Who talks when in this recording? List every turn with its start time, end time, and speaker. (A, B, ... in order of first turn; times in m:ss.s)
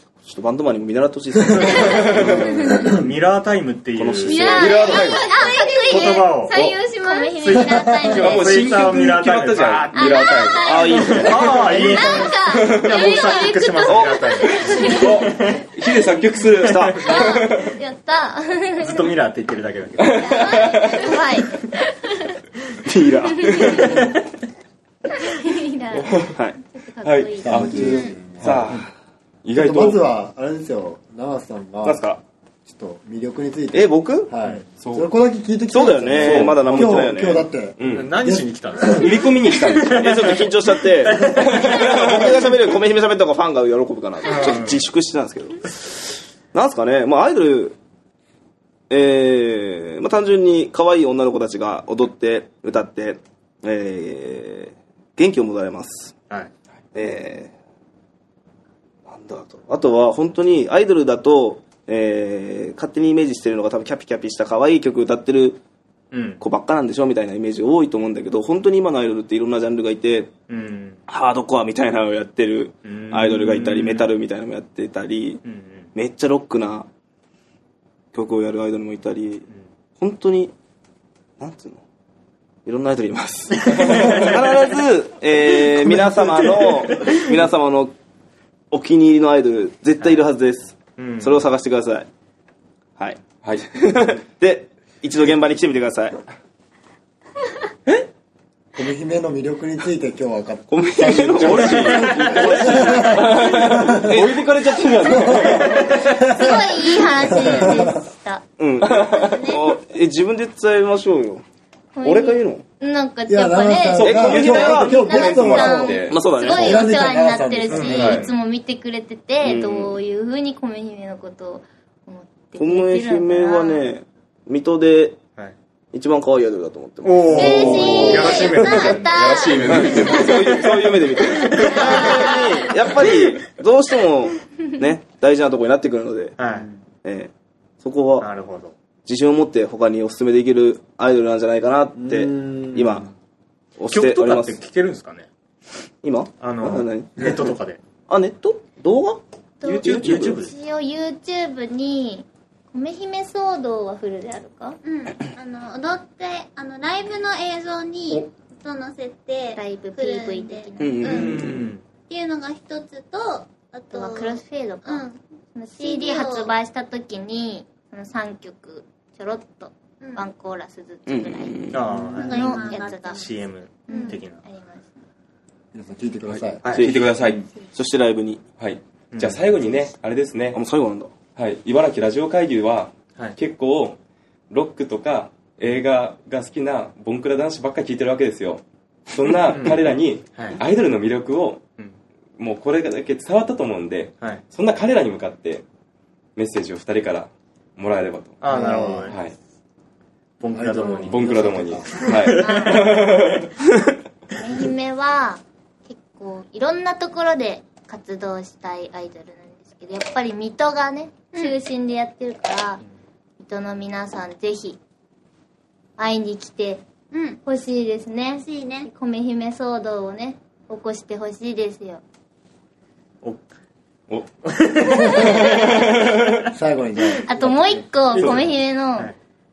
0:00.2-0:03.0 A
0:01.6-0:04.6 B
0:01.8-0:02.4 C
0:02.5-0:02.9 D
0:04.0-0:04.8 A
0:04.3-0:08.3 E
0:04.3-0:06.4 D
0:04.4-0:05.4 C
0:05.7-0:06.6 B
0:06.5-0:06.8 C
0:06.9-0:08.6 D
0:07.5-0:15.7 B
0:07.5-0:08.1 F
0:08.1-0:10.9 C
0:09.9-0:15.2 D
0:10.7-0:12.0 A
0:12.4-0:12.9 C
0:12.9-0:14.8 E
0:13.9-0:14.2 A
0:14.8-0:17.8 C
0:16.6-0:17.0 A
0:16.7-0:17.4 B
0:17.0-0:19.1 D
0:18.8-0:20.2 B
0:20.0-0:21.2 C
0:20.2-0:21.8 D
0:22.8-0:24.2 A
0:23.4-0:23.9 D
0:23.8-0:24.2 B
0:25.2-0:28.1 D
0:26.0-0:26.4 C
0:27.0-0:28.8 C
0:27.4-0:28.7 F
0:27.9-0:28.1 E
0:28.4-0:28.9 A
0:29.4-0:30.0 C
0:29.5-0:32.0 F
0:31.8-0:32.2 A
0:32.7-0:39.2 F
0:33.7-0:34.3 A
0:34.7-0:35.1 C
0:35.7-0:37.5 A
0:36.2-0:37.1 C
0:37.8-0:38.1 C
0:37.9-0:41.9 B
0:38.9-0:40.1 C
0:40.0-0:46.0 A
0:41.4-0:42.5 C
0:44.3-0:44.8 B
0:46.5-0:47.8 A
0:48.9-0:56.2 A
0:56.9-0:57.5 A
0:59.1-1:05.6 A
1:06.1-1:06.4 B
1:06.4-1:10.3 A
1:10.5-1:11.0 B
1:11.1-1:15.4 A
1:12.8-1:14.1 B
1:15.4-1:15.9 B
1:16.0-1:16.9 A
1:18.1-1:19.5 A
1:20.0-1:20.5 A
1:21.4-1:21.8 A
1:22.7-1:27.9 A
1:23.7-1:24.3 B
1:23.8-1:24.3 C
1:26.4-1:27.3 B
1:28.7-1:32.1 A
1:31.0-1:31.4 B
1:33.0-1:36.2 A
1:38.8-1:44.2 F
1:40.7-1:45.5 A
1:41.4-1:46.3 C
1:41.9-1:42.4 B
1:45.1-1:48.0 F
1:45.3-1:48.4 D
1:48.6-1:51.4 A
1:48.8-1:49.4 C
1:49.1-1:49.7 E
1:52.0-2:03.9 D
1:52.0-1:52.6 A
1:53.3-1:58.2 F
1:54.0-1:56.3 C
1:54.0-1:55.4 A
1:56.1-1:56.9 A
1:57.7-1:58.3 B
1:57.9-1:58.3 C
1:59.4-2:00.0 A
2:02.6-2:05.2 A
2:05.9-2:09.0 A
2:07.0-2:09.3 B
2:07.3-2:09.6 D
2:08.0-2:10.0 E
2:09.0-2:10.8 C
2:09.6-2:16.4 A
2:11.2-2:13.2 B
2:16.4-2:16.7 B
2:17.0-2:18.3 A
2:18.2-2:18.7 B
2:19.1-2:23.1 A
2:22.3-2:22.9 B
2:23.8-2:24.6 A
2:23.9-2:25.3 B
2:26.0-2:27.4 A
2:26.4-2:27.8 B
2:28.1-2:30.4 A
2:29.6-2:34.8 D
2:29.8-2:30.5 B
2:34.8-2:41.6 E
2:39.6-2:41.3 D
2:40.8-2:41.6 A
2:41.1-2:41.8 B
2:42.1-2:45.2 E
2:43.9-2:53.2 D
2:45.8-2:46.5 E
2:51.1-2:52.2 A
2:51.7-2:54.4 B
2:52.0-2:53.4 E
2:53.9-2:55.0 D
2:53.9-2:54.2 E
2:55.7-2:56.7 F
2:56.6-2:57.0 B
2:56.7-2:57.1 A
2:56.8-2:57.5 C
2:57.7-2:58.5 A
2:58.6-3:00.6 C
2:59.1-2:59.6 B
3:00.5-3:01.1 A
3:01.4-3:04.0 C
3:04.5-3:11.6 C
3:09.5-3:10.6 B
3:12.4-3:15.6 C
3:16.4-3:18.4 C
3:18.4-3:19.2 B
3:18.5-3:19.1 F
3:19.1-3:19.4 C
3:20.4-3:23.0 B
3:20.5-3:22.3 F
3:21.1-3:23.5 C
3:22.3-3:22.9 D
3:24.4-3:32.8 D
3:33.4-3:34.8 D
3:36.0-3:36.8 D
3:37.1-3:37.4 E
3:37.4-3:42.0 D
3:38.4-3:38.9 E
3:44.5-3:45.7 B
3:45.4-3:46.5 C
3:46.5-3:48.0 F
3:47.2-3:49.1 D
3:48.1-3:48.4 B